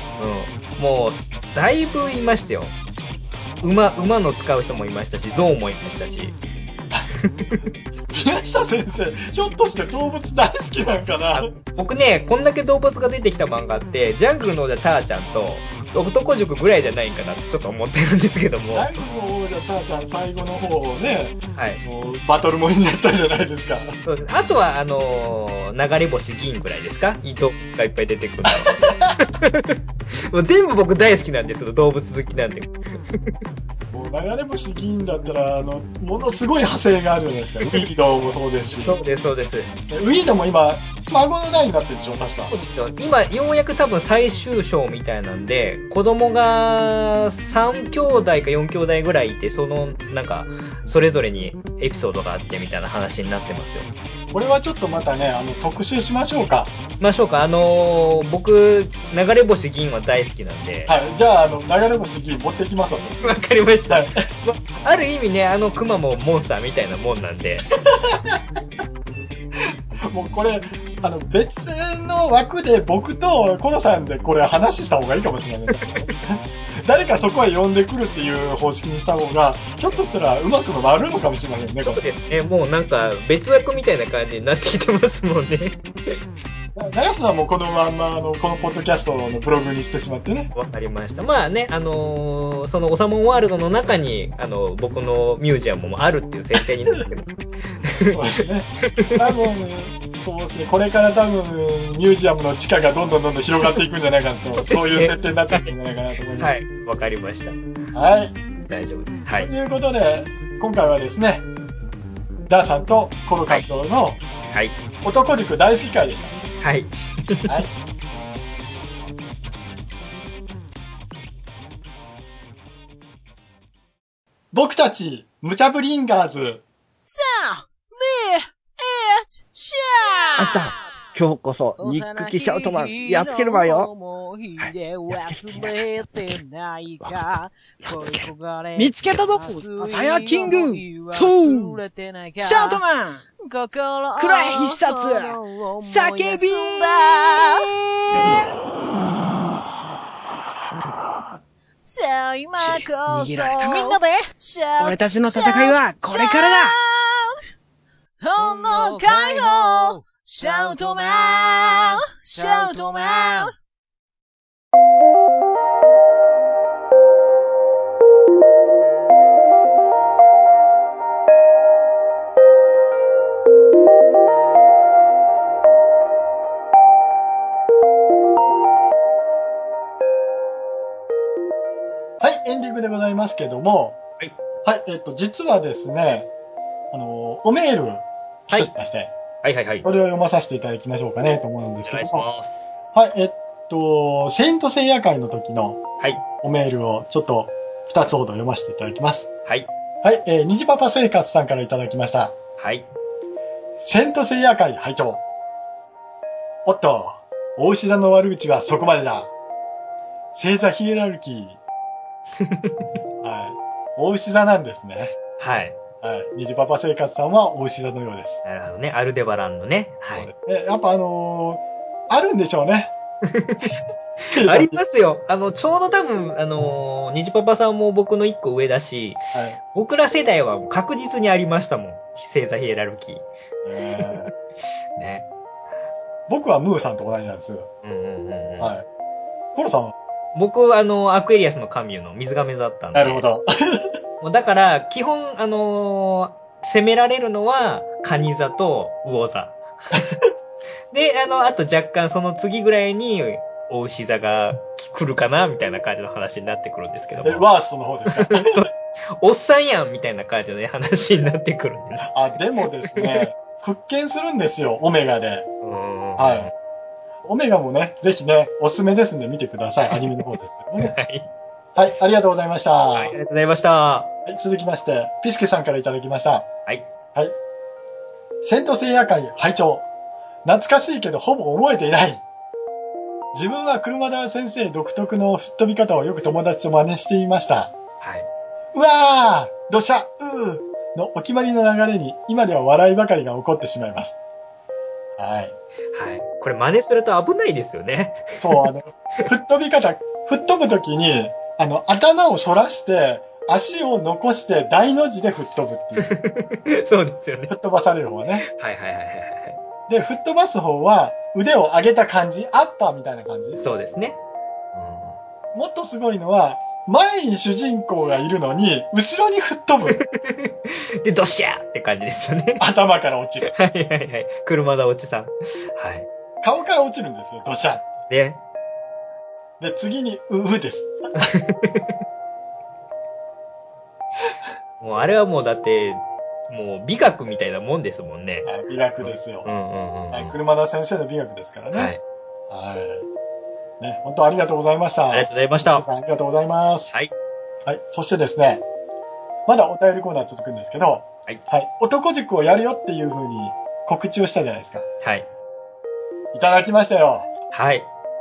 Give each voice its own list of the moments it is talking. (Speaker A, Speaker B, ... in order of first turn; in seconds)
Speaker A: 0.2-2.7, 3.6-6.4, 7.1-7.7, 11.3-18.9, 21.6-21.8, 24.0-33.3, 37.6-37.9, 38.8-39.7, 42.4-53.9, 57.0-60.9, 63.2-67.7, 81.8-86.2, 90.5-98.2, 98.9-99.5, 104.5-105.7, 106.4-107.6, 108.7-109.5, 114.5-114.8, 116.6-117.6, 189.4-189.9, 191.9-192.8, 202.6-202.9, 212.4-212.9, 215.4-215.8, 218.4-220.3, 223.3-233.2, 234.0-234.3, 234.9-235.3, 237.8-238.7, 240.3-243.2, 244.2-250.0, 250.9-257.5, 258.1-262.1, 262.9-263.3, 265.6-266.5, 270.8-271.3, 272.9-274.1, 288.0-288.3, 295.9-298.7, 306.0-307.5, 308.5-309.6, 313.6-314.2, 314.7-315.2, 319.9-322.6, 323.5-326.1, 328.1-328.4, 331.1-331.9, 334.8-338.5, 339.0-340.4, 341.7-342.0, 345.1-345.9, 355.0-355.3, 357.5-357.9
Speaker B: 8.1-11.5, 18.7-24.0, 28.6-29.1, 33.9-39.0, 39.9-42.5, 54.3-56.7, 60.9-64.2, 67.8-68.4, 69.6-82.0, 86.8-90.5, 98.1-106.5, 107.9-108.3, 109.4-111.5, 112.5-114.2, 115.0-116.4, 124.5-126.6, 182.2-184.0, 184.6-186.3, 186.9-189.1, 189.8-192.3, 192.9-195.8, 196.4-199.3, 200.0-202.3, 203.8-205.2, 206.7-209.3, 210.3-211.6, 213.2-215.2, 216.0-218.4, 220.1-222.9, 224.3-224.8, 233.7-234.3, 236.3-237.7, 238.6-238.8, 239.6-239.9, 242.9-244.0, 257.2-258.7, 262.1-265.5, 266.2-266.5, 267.2-270.9, 271.8-273.1, 274.3-276.5, 278.4-279.9, 280.4-282.2, 283.3-287.7, 288.7-294.1, 295.2-295.5, 298.4-306.2, 307.5-308.4, 309.9-313.7, 315.5-320.0, 322.6-323.5, 326.4-327.9, 329.6-331.0, 338.5-339.5, 340.1-341.9, 342.5-343.1, 343.8-346.9, 347.7-348.6, 349.5-354.9, 356.3-357.3
Speaker C: 127.0-130.9, 131.8-142.8, 143.4-148.4, 151.8-157.4, 158.2-163.5
Speaker D: 130.4-133.9
Speaker E: 138.8-141.8, 142.4-143.3, 144.2-148.5, 152.6-154.2, 154.8-156.8, 158.4-160.9, 162.3-163.5